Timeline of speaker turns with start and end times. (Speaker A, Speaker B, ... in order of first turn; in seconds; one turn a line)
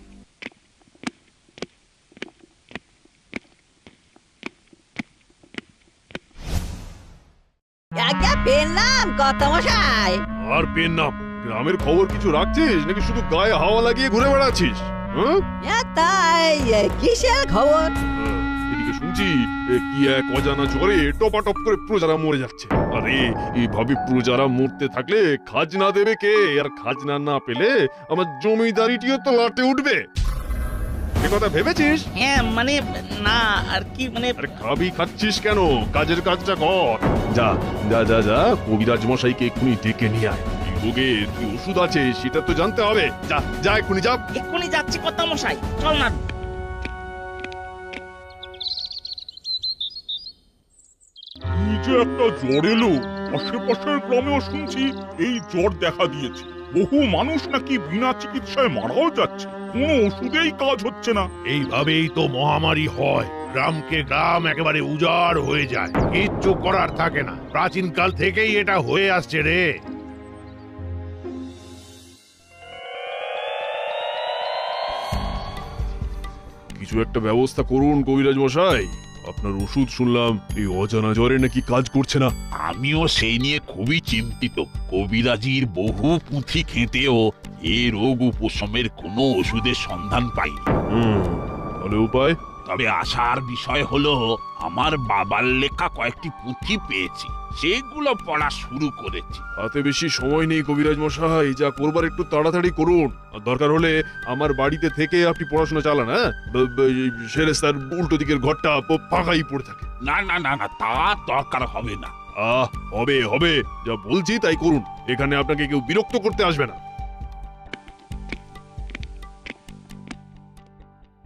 Speaker A: 8.0-10.2
Speaker B: 10.4-15.4
Speaker A: 15.6-17.9
Speaker B: 18.2-30.0
Speaker B: 31.2-32.1
Speaker C: 32.2-34.3
Speaker B: 34.4-44.2
Speaker C: 44.3-46.2
Speaker D: 51.6-61.3
Speaker E: 61.5-69.7
Speaker B: 76.8-82.3
Speaker F: 82.6-90.6
Speaker B: 90.9-92.4
Speaker F: 92.7-99.4
Speaker B: 99.6-109.9
Speaker F: 110.0-112.1
Speaker B: 112.4-116.8